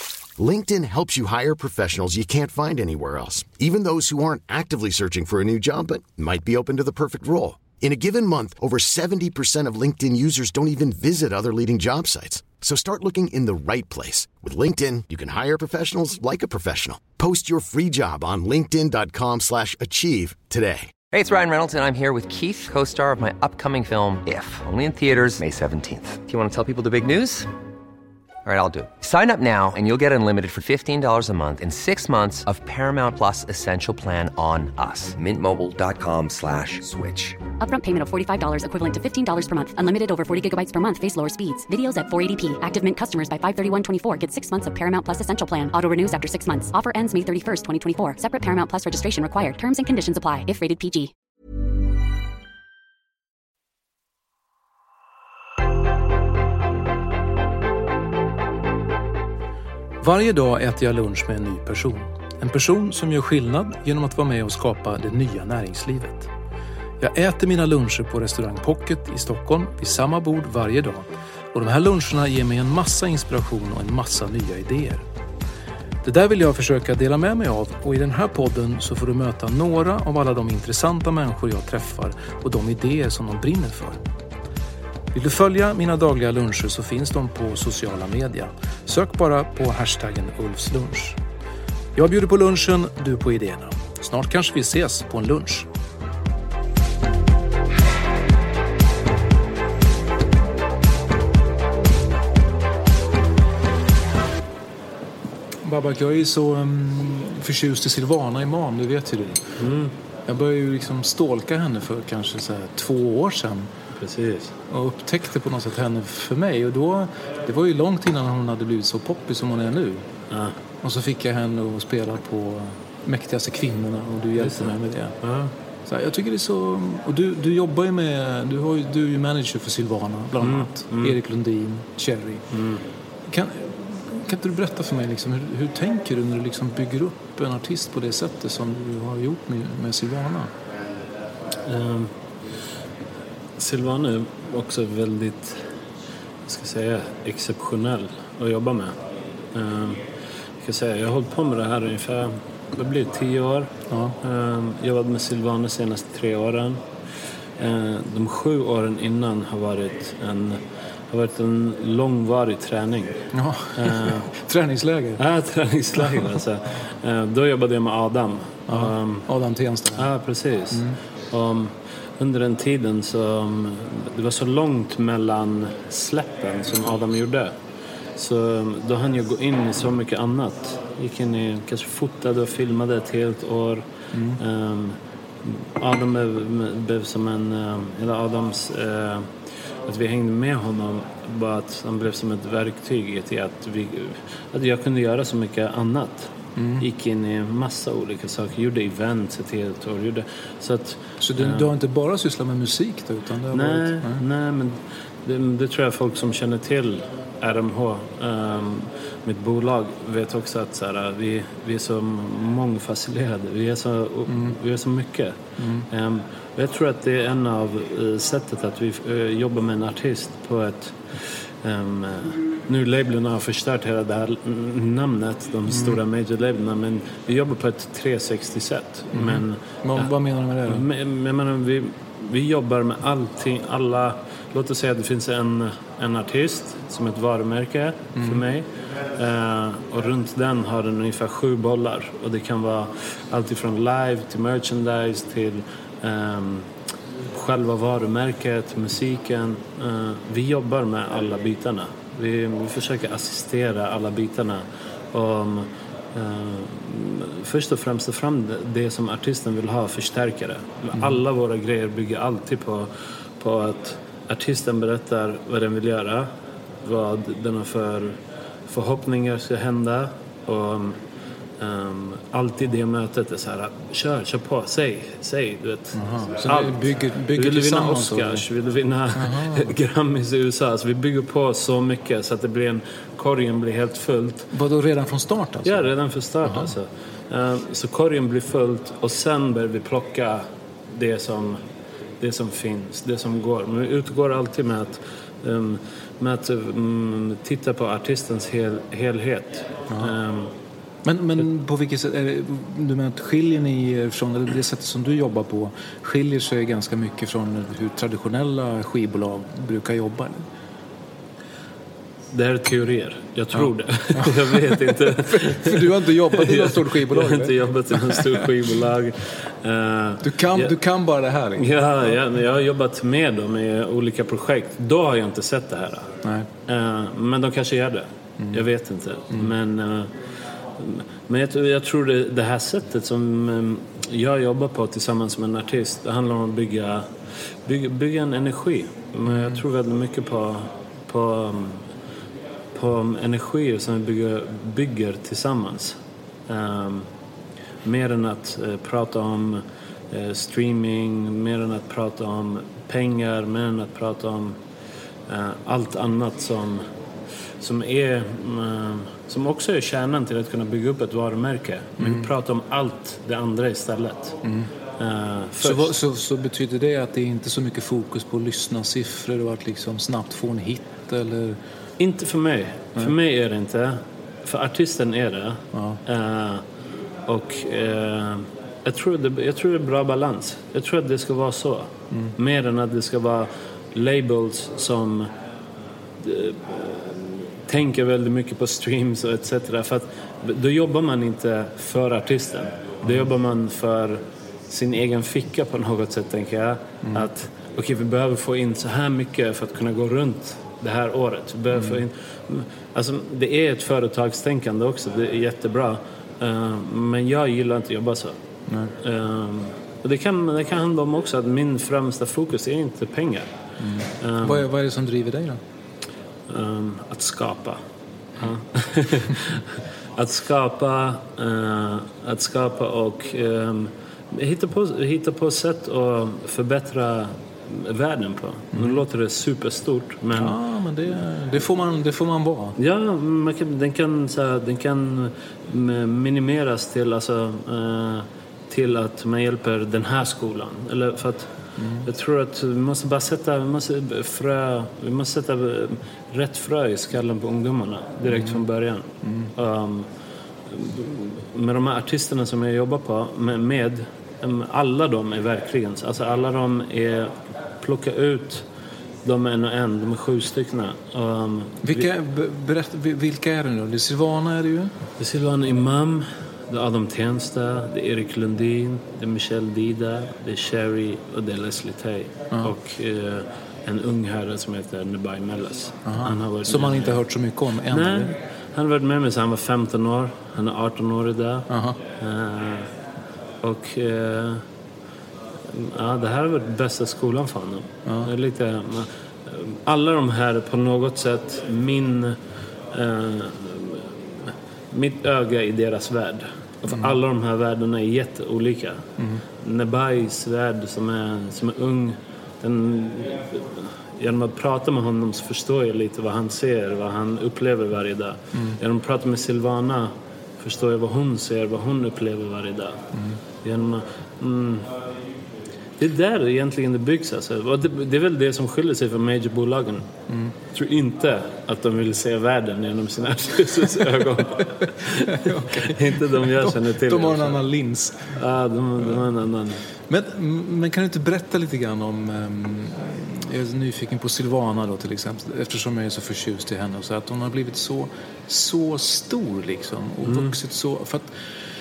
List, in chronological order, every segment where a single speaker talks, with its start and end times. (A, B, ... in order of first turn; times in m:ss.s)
0:00.4-0:20.9 A
0:21.1-0:27.5 B
0:28.4-0:37.4 B
0:37.6-0:51.1 C
1:00.0-1:06.3 D
1:07.0-1:15.0 D
1:16.0-1:24.0 D
1:25.1-1:31.2 D
1:32.0-1:35.7 D
1:45.6-1:49.6 D
1:49.6-1:50.0 E
1:50.3-1:53.7 D
1:54.0-1:54.6 E
1:54.7-2:00.0 D
2:00.3-2:00.6 E
2:00.8-2:05.2 D
2:04.4-2:05.5 E
2:05.9-2:12.4 D
2:10.4-2:11.2 E
2:12.5-2:12.8 E
2:13.3-2:20.5 D
2:21.6-2:22.1 E
2:23.6-2:25.6 E
2:26.5-2:29.0 E
2:29.5-2:30.0 E
2:30.6-2:36.8 E
2:33.9-2:34.2 D
2:37.6-2:43.2 E
2:43.3-2:45.2 D
2:43.8-2:44.3 E
2:45.2-2:49.3 E
2:48.7-2:50.1 D
2:50.0-2:57.5 E
2:50.7-2:51.0 D
2:58.2-3:09.3 E
3:04.1-3:04.4 D
3:09.8-3:21.7 E
3:16.6-3:16.8 D
3:21.2-3:24.2 D
3:23.5-3:35.4 E
3:34.3-3:34.6 D
3:35.6-3:35.9 D
3:35.9-3:50.1 E
3:45.7-3:46.0 D
3:49.1-3:50.9 D
3:50.7-4:06.7 E
3:58.2-3:58.4 D
4:07.3-4:26.3 E
4:26.8-4:31.0 E
4:31.6-4:44.5 E
4:36.0-4:38.4 D
4:39.2-4:39.7 D
4:44.5-4:45.9 D
4:45.6-4:51.6 E
4:46.4-4:46.7 D
4:52.2-5:00.5 E
5:01.0-5:10.4 D
5:12.3-5:20.7 E
5:13.6-5:18.5 D
5:20.2-5:21.7 D
5:21.6-5:26.1 E
5:26.2-5:26.5 D
5:26.7-5:30.1 E
5:30.8-5:37.1 E
5:37.6-5:41.9 E
5:39.3-5:39.6 D
5:42.7-5:47.1 E
5:47.8-5:54.6 E
5:55.3-5:56.9 E
5:57.6-6:04.4 E
6:02.0-6:02.3 D
6:05.0-6:06.0 E
6:05.6-6:11.6 D
6:12.0-6:16.6 E
6:15.7-6:16.0 D
6:17.3-6:25.3 E
6:26.2-6:48.4 E
6:48.7-6:48.9 D
6:49.0-6:53.5 E
6:53.8-6:55.6 D
6:54.2-6:54.6 E
6:56.5-6:57.8 E
6:58.4-7:10.6 E
7:10.4-7:12.8 D
7:12.8-7:21.5 E
7:21.8-7:22.1 D
7:22.0-7:30.1 E
7:28.3-7:28.6 D
7:29.2-7:29.5 D
7:30.7-7:38.7 E
7:39.2-7:42.1 E
7:41.8-7:44.9 D
7:45.2-7:57.2 E
7:56.0-7:58.3 D
7:57.9-8:02.9 E
8:01.7-8:02.0 D
8:03.6-8:04.6 E
8:05.7-8:12.4 E
8:12.9-8:19.0 E
8:19.6-8:33.1 E
8:33.6-8:34.9 E
8:36.0-8:40.1 E
8:40.7-8:47.6 E
8:44.8-8:48.4 D
8:48.4-8:49.8 E
8:50.1-9:01.3 D
9:00.2-9:00.5 E